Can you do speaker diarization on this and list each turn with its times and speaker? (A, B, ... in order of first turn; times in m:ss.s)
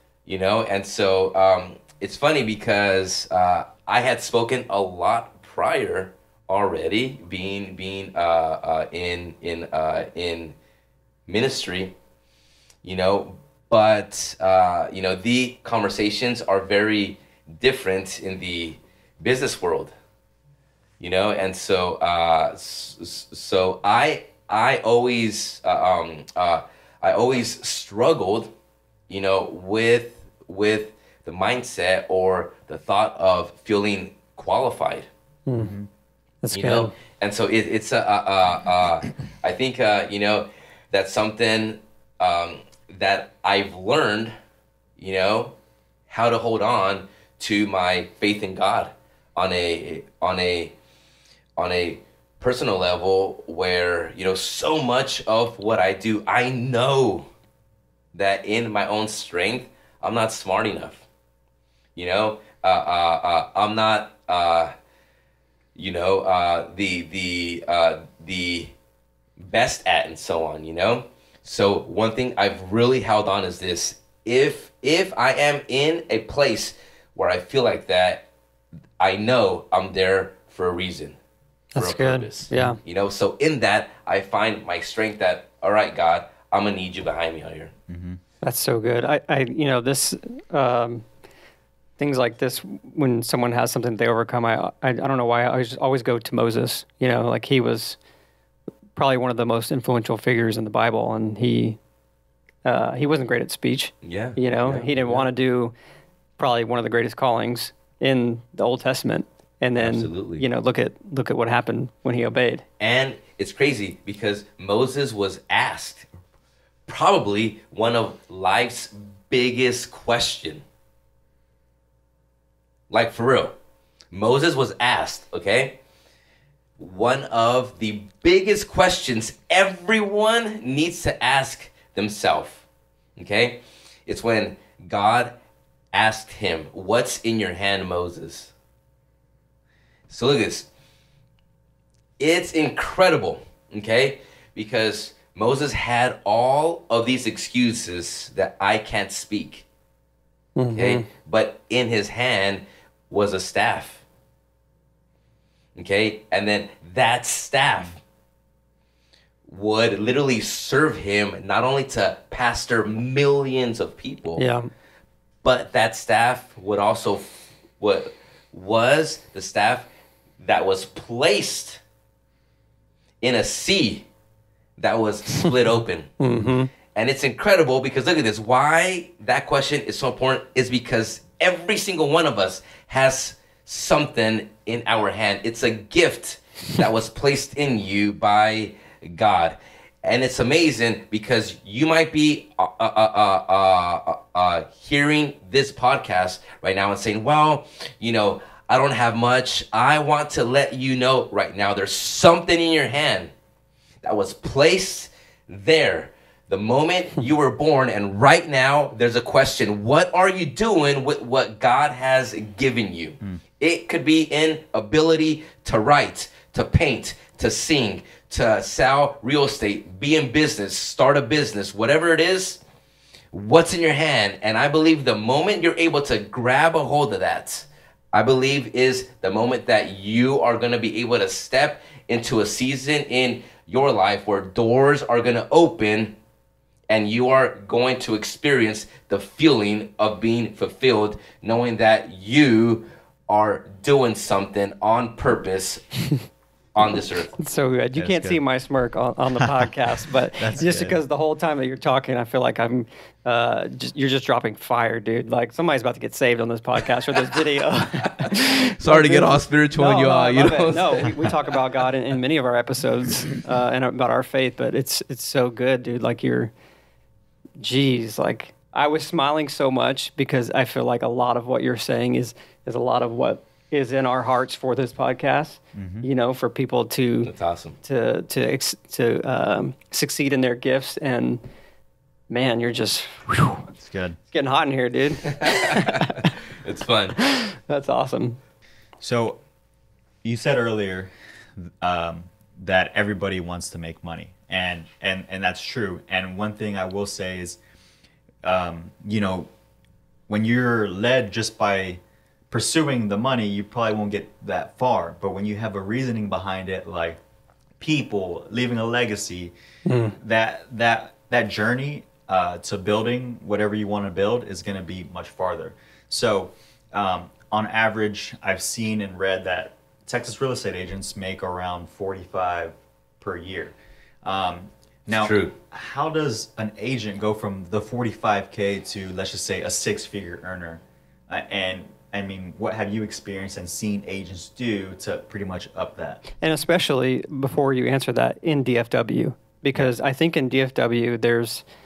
0:00.3-0:10.6 A
0:11.3-0:11.9 A
0:12.8-0:19.9 A
0:21.0-0:28.5 A
0:29.1-0:35.1 A
0:35.5-0:35.7 B
0:35.6-0:35.9 C
0:36.4-0:36.9 B
0:36.5-0:44.3 A
0:45.0-0:45.5 A
0:46.1-0:50.7 A
0:51.6-0:57.3 A
0:58.1-1:01.0 A
1:02.0-1:04.7 A
1:05.8-1:08.7 A
1:09.4-1:18.3 A
1:19.0-1:21.2 A
1:21.8-1:22.8 B
1:21.8-1:27.7 A
1:27.9-1:28.2 C
1:28.4-1:31.0 B
1:32.0-1:38.0 B
1:39.0-1:41.8 B
1:42.6-1:45.7 B
1:44.0-1:45.3 A
1:46.4-1:52.6 B
1:49.8-1:50.4 A
1:52.8-1:56.1 A
1:56.9-2:00.6 A
2:02.9-2:03.5 A
2:04.1-2:05.8 A
2:06.8-2:12.6 A
2:13.2-2:15.4 A
2:15.9-2:18.5 A
2:20.1-2:20.7 A
2:22.2-2:29.6 A
2:30.6-2:31.0 B
2:30.7-2:34.0 A
2:35.8-2:38.0 A
2:39.5-2:44.4 A
2:44.4-2:44.7 B
2:45.4-2:49.9 A
2:50.4-2:51.8 A
2:53.2-2:54.1 A
2:54.8-2:56.1 A
2:56.2-2:56.7 B
2:56.9-3:23.3 A
3:24.0-3:42.6 A
3:43.3-3:56.2 A
3:56.9-4:05.8 A
4:06.8-4:07.3 A
4:07.4-4:26.5 B
4:08.0-4:08.4 C
4:09.4-4:09.7 C
4:10.4-4:11.0 C
4:18.0-4:21.3 A
4:27.6-4:37.3 B
4:35.8-4:36.1 C
4:37.2-4:37.8 A
4:37.8-4:41.4 B
4:42.3-4:43.6 B
4:43.8-4:44.2 C
4:44.3-4:46.3 B
4:45.3-4:47.2 A
4:47.2-4:48.4 B
4:49.0-4:49.4 C
4:50.2-4:57.6 C
4:58.4-4:59.5 C
5:00.3-5:07.2 C
5:07.8-5:09.5 C
5:09.9-5:10.2 B
5:10.2-5:36.2 C
5:25.2-5:25.5 A
5:36.4-5:41.6 B